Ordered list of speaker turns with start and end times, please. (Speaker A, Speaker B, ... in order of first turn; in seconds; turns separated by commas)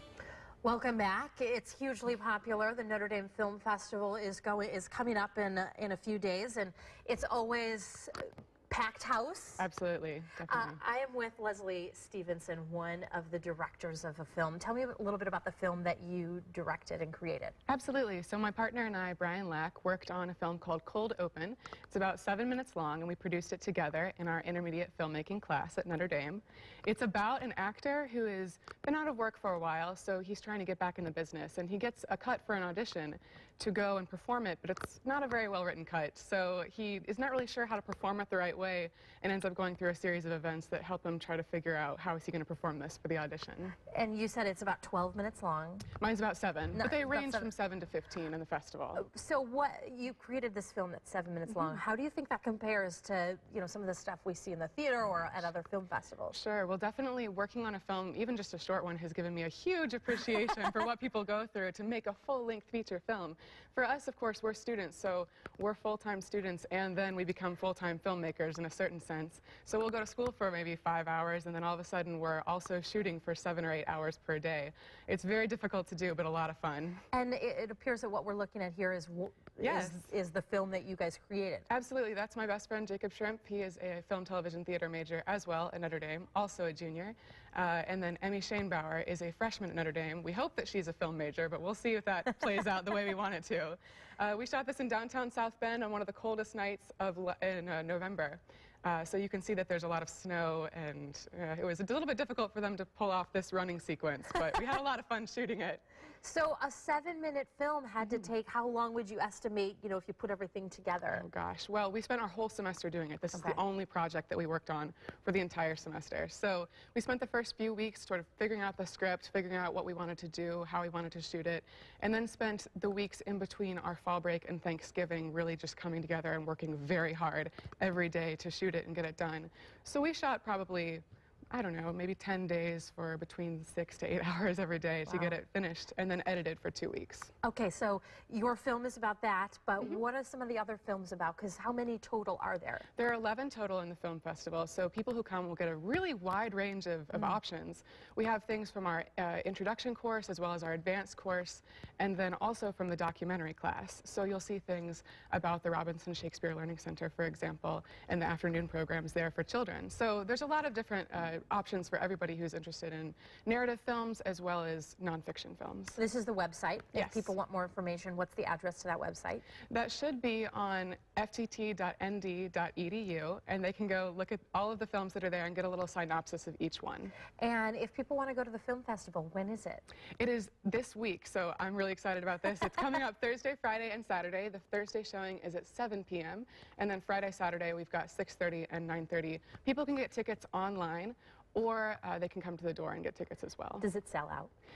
Speaker A: 0.6-8.1, Speaker A: 8.7-9.7, Speaker B: 9.6-10.8, Speaker A: 10.5-17.6, Speaker B: 17.7-43.8, Speaker A: 43.9-45.9, Speaker B: 46.0-49.0, Speaker A: 46.7-47.5, Speaker A: 49.0-56.4, Speaker B: 56.3-77.0, Speaker A: 77.1-81.7, Speaker B: 79.6-80.0, Speaker B: 81.7-105.8, Speaker A: 106.2-111.3, Speaker B: 108.0-108.3, Speaker B: 111.1-137.3, Speaker A: 113.3-113.6, Speaker A: 135.1-135.4, Speaker A: 137.4-142.9, Speaker B: 143.0-166.0, Speaker A: 166.0-169.5, Speaker B: 166.9-167.3, Speaker B: 169.7-177.2, Speaker A: 177.4-179.8, Speaker B: 180.2-193.8, Speaker A: 193.8-194.5